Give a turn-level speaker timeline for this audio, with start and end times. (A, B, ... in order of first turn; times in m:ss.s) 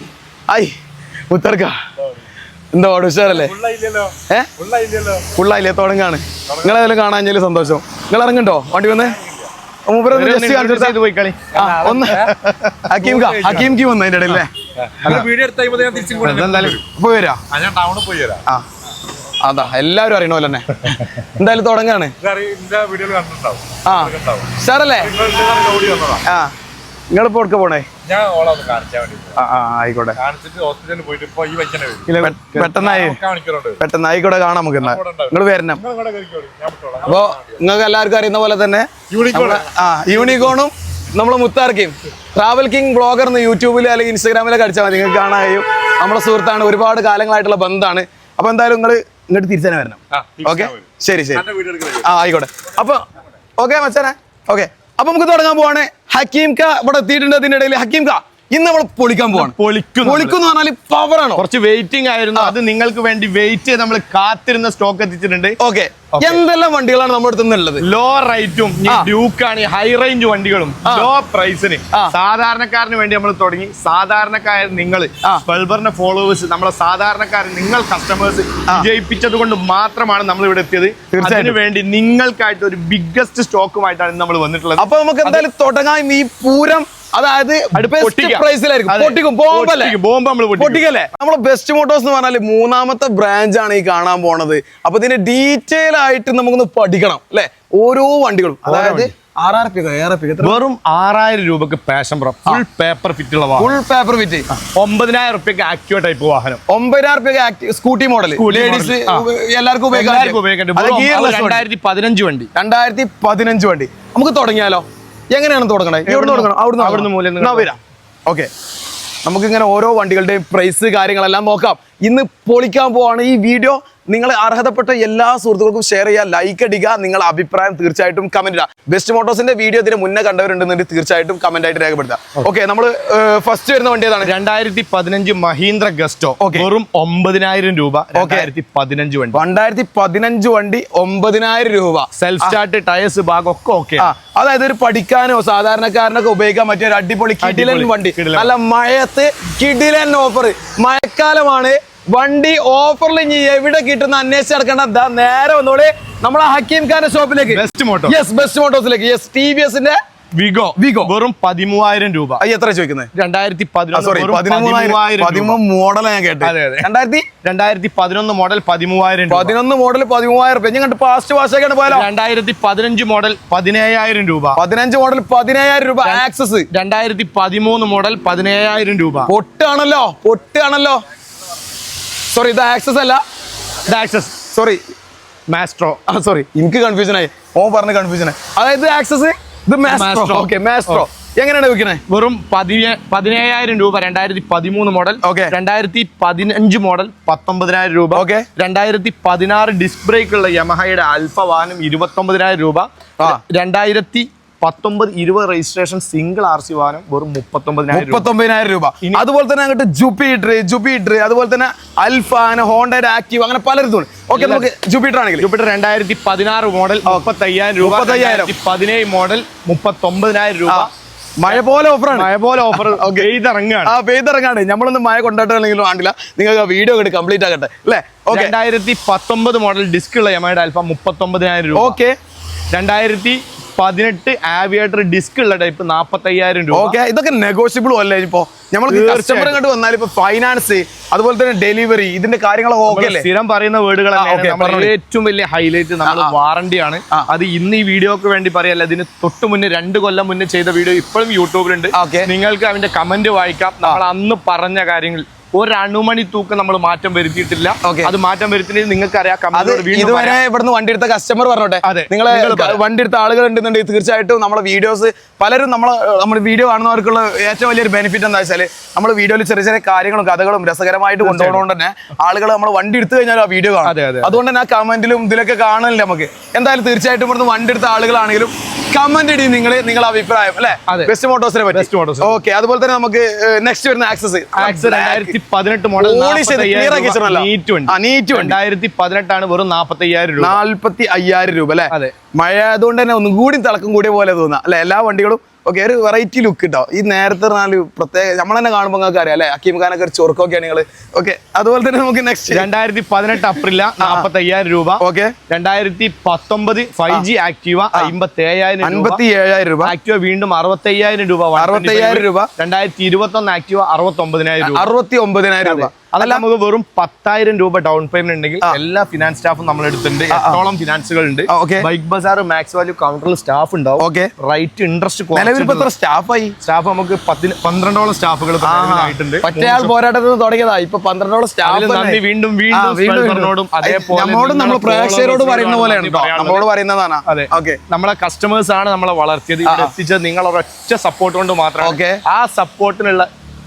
0:00.5-0:00.7 A
0:01.3-0:01.7 A
0:02.7-0:03.6 A
0:03.3-0:05.3 B
0:05.3-0:09.2 A
0:09.9-0:11.0 A
0:10.1-0:13.7 C
0:11.5-0:12.3 A
0:11.6-0:12.0 B
0:12.8-0:14.5 A
0:13.0-0:13.7 B
0:15.0-0:15.3 C
0:15.0-0:16.8 B
0:15.9-0:16.8 C
0:16.8-0:17.4 A
0:17.5-0:18.4 B
0:19.4-0:22.1 A
0:22.2-0:24.4 B
0:23.8-0:25.2 A
0:25.0-0:26.2 B
0:26.2-0:26.5 A
0:27.1-0:27.9 A
0:28.1-0:29.3 B
0:29.3-0:30.2 A
0:30.2-0:32.0 B
0:32.0-0:33.7 C
0:32.1-0:33.2 A
0:33.8-0:35.8 A
0:35.8-0:37.3 B
0:37.0-0:53.0 A
0:39.1-0:40.4 B
0:50.1-0:50.6 C
0:53.6-1:01.4 A
0:59.3-1:00.4 C
1:01.4-1:05.6 C
1:05.6-1:07.8 A
1:06.1-1:06.4 C
1:07.8-1:25.4 C
1:08.8-1:09.1 A
1:10.8-1:11.1 A
1:21.1-1:21.6 A
1:24.8-1:30.0 A
1:27.7-1:30.8 C
1:30.6-1:40.6 A
1:38.6-1:39.1 C
1:40.4-1:43.7 C
1:43.6-1:44.6 A
1:44.7-1:46.6 C
1:46.7-1:51.6 A
1:48.3-1:49.2 C
1:49.9-1:52.5 C
1:52.5-1:58.5 A
1:56.0-1:57.7 C
1:59.2-2:14.3 A
2:14.2-2:19.4 C
2:16.4-2:16.7 A
2:18.1-2:18.5 A
2:19.3-2:22.6 A
2:22.1-2:24.1 C
2:24.0-2:40.0 A
2:27.4-2:28.5 C
2:37.5-2:38.2 C
2:40.4-2:42.4 C
2:40.8-2:41.1 A
2:42.4-2:43.1 A
2:43.1-2:45.6 C
2:43.9-2:47.3 A
2:46.4-2:46.9 C
2:47.4-2:49.5 C
2:49.3-2:52.1 A
2:51.9-2:54.6 C
2:54.6-2:56.7 A
2:56.0-2:59.3 C
2:59.3-3:01.0 A
3:02.3-3:03.2 A
3:03.9-3:04.4 C
3:04.5-3:04.8 A
3:05.5-3:06.0 C
3:06.1-3:12.0 A
3:09.8-3:11.0 C
3:12.1-3:28.3 C
3:15.2-3:15.5 A
3:18.1-3:18.5 A
3:27.9-3:35.5 A
3:34.3-3:34.7 C
3:35.4-3:40.9 C
3:37.8-3:38.5 A
3:41.4-3:43.3 A
3:41.5-3:43.9 C
3:43.8-3:48.5 A
3:48.3-3:52.0 C
3:51.7-3:52.2 A
3:52.7-3:57.0 C
3:56.7-4:03.3 A
3:58.9-3:59.6 C
4:02.9-4:20.4 C
4:04.1-4:04.9 A
4:06.0-4:06.3 A
4:11.9-4:12.3 A
4:17.8-4:18.1 A
4:19.5-4:45.3 A
4:21.8-4:22.8 C
4:31.2-4:31.6 C
4:33.8-4:34.3 C
4:41.7-4:42.4 C
4:44.6-4:50.6 C
4:46.0-4:48.6 A
4:50.4-5:02.7 A
4:51.9-4:52.1 C
5:02.5-5:09.2 C
5:04.0-5:04.3 A
5:05.0-5:05.3 A
5:08.8-5:09.9 A
5:09.8-5:14.9 C
5:11.6-5:12.5 A
5:14.6-5:16.4 A
5:15.6-5:25.9 C
5:20.3-5:20.6 A
5:21.5-5:21.9 A
5:24.0-5:24.3 A
5:25.3-5:26.5 A
5:26.6-5:29.9 C
5:28.6-5:37.8 A
5:31.6-5:36.6 C
5:37.2-5:43.3 C
5:39.6-5:39.9 A
5:41.8-5:42.2 A